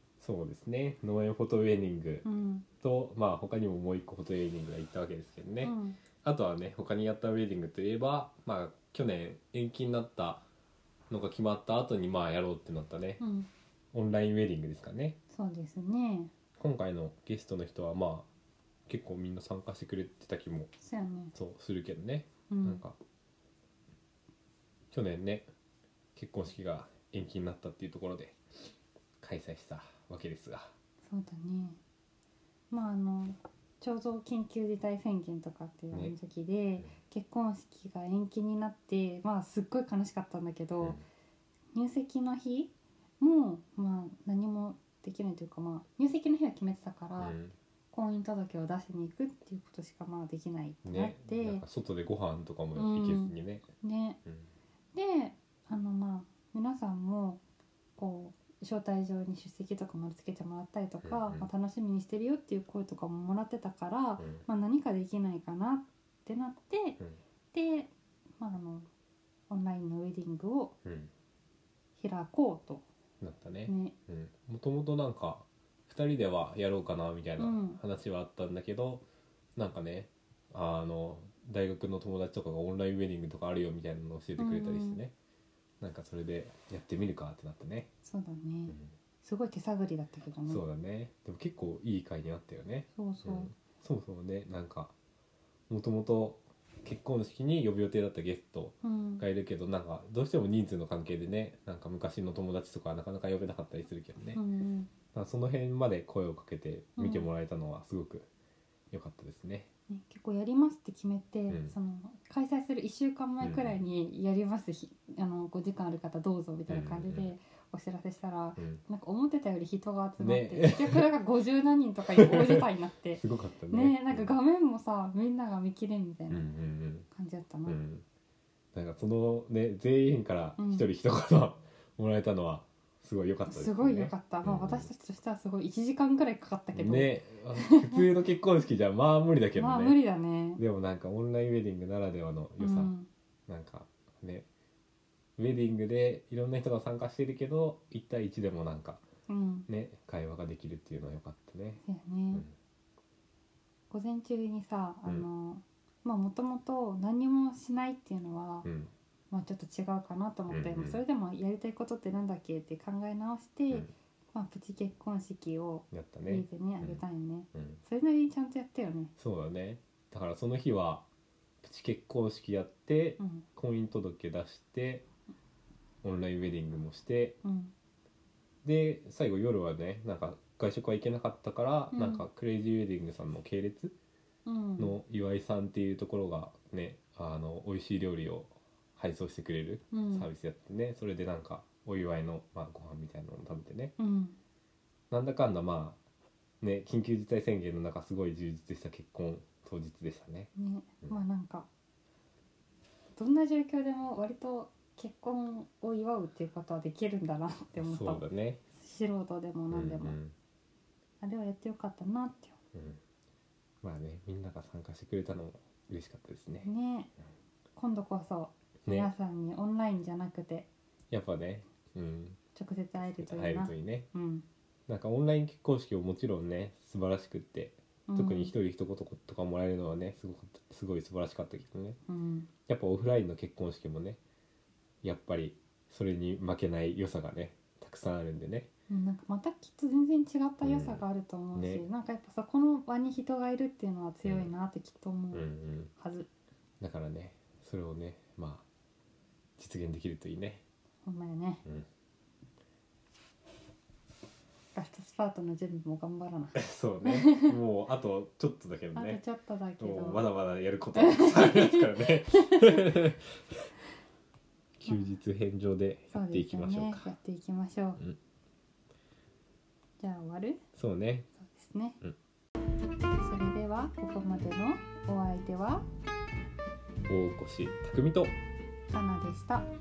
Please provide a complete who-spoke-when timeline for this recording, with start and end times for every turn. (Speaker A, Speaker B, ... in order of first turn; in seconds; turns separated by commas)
Speaker A: 0.2-2.2, Speaker B: 2.2-2.7, Speaker A: 2.8-10.4, Speaker B: 5.6-6.0, Speaker A: 11.1-13.2, Speaker B: 13.2-13.5, Speaker A: 13.9-15.2, Speaker B: 15.3-16.3, Speaker A: 16.6-18.3, Speaker A: 18.9-20.7, Speaker B: 20.8-21.3, Speaker A: 21.3-23.0, Speaker B: 22.5-22.8, Speaker A: 24.9-25.5, Speaker A: 26.1-28.4, Speaker A: 29.2-30.7, Speaker B: 31.1-31.8, Speaker B: 32.7-41.0, Speaker B: 41.7-47.4, Speaker A: 47.2-47.5, Speaker B: 47.9-51.6, Speaker A: 50.9-53.7, Speaker B: 52.8-54.2, Speaker B: 54.9-57.4, Speaker B: 58.0-67.0, Speaker A: 61.0-61.5, Speaker A: 64.2-64.5, Speaker B: 67.5-68.9, Speaker B: 69.5-70.7, Speaker A: 70.8-71.1, Speaker B: 72.0-72.8, Speaker A: 73.2-79.0, Speaker B: 73.7-73.9, Speaker B: 77.4-77.8, Speaker A: 79.6-85.1, Speaker B: 84.4-85.0, Speaker A: 85.8-87.9, Speaker B: 88.0-90.6, Speaker A: 90.5-94.9, Speaker B: 93.0-93.5, Speaker A: 95.7-104.4, Speaker B: 98.8-99.2, Speaker B: 104.3-104.9, Speaker A: 105.1-108.3, Speaker B: 107.0-107.3, Speaker A: 108.9-109.7, Speaker B: 109.9-126.5, Speaker A: 111.5-111.7, Speaker A: 113.4-113.8, Speaker A: 116.7-117.3, Speaker A: 120.2-121.0, Speaker A: 122.2-124.3, Speaker A: 126.3-127.1, Speaker B: 127.1-127.8, Speaker A: 127.7-128.0, Speaker A: 128.7-134.9, Speaker B: 130.6-130.9, Speaker B: 133.5-138.1, Speaker A: 136.7-140.0, Speaker B: 139.6-140.6, Speaker A: 140.6-142.9, Speaker B: 142.6-143.1, Speaker A: 143.5-144.5, Speaker A: 145.4-149.0, Speaker B: 149.3-149.7, Speaker A: 149.7-151.8, Speaker B: 151.8-152.5, Speaker B: 153.9-158.7, Speaker A: 158.7-158.9, Speaker B: 159.3-169.1, Speaker A: 160.5-161.0, Speaker A: 165.9-167.0, Speaker A: 167.5-167.8, Speaker A: 169.2-171.1, Speaker A: 171.6-175.1, Speaker B: 173.2-173.4, Speaker A: 176.0-177.4, Speaker B: 177.4-177.7, Speaker A: 178.6-183.9, Speaker B: 181.9-182.3, Speaker B: 184.5-185.0, Speaker A: 184.8-194.0, Speaker B: 189.9-190.3, Speaker B: 194.0-194.4, Speaker A: 195.1-196.0, Speaker A: 196.6-200.5, Speaker B: 200.6-201.7, Speaker B: 203.2-208.2, Speaker A: 207.8-208.6, Speaker B: 208.8-210.2, Speaker A: 209.7-210.3, Speaker B: 211.2-212.6, Speaker A: 213.8-216.7, Speaker B: 216.6-217.1, Speaker B: 217.8-220.7, Speaker A: 218.9-219.1, Speaker A: 221.1-222.4, Speaker B: 222.5-224.4, Speaker A: 223.2-224.1, Speaker A: 224.9-232.0, Speaker B: 228.1-228.5, Speaker B: 232.1-232.5, Speaker A: 232.7-234.2, Speaker A: 235.0-238.7, Speaker B: 238.9-246.3, Speaker A: 240.6-241.0, Speaker A: 241.6-241.9, Speaker A: 244.2-244.5, Speaker A: 245.3-245.9, Speaker A: 246.8-248.7, Speaker A: 249.6-250.6, Speaker B: 251.1-251.6, Speaker B: 254.7-257.5, Speaker A: 256.6-259.2, Speaker B: 258.9-260.3, Speaker A: 259.8-263.3, Speaker B: 260.9-262.8, Speaker A: 264.8-267.1, Speaker B: 266.1-268.0, Speaker B: 270.0-270.6, Speaker A: 270.8-271.3, Speaker B: 271.4-272.0, Speaker B: 273.2-275.8, Speaker A: 277.1-278.3, Speaker B: 278.9-279.7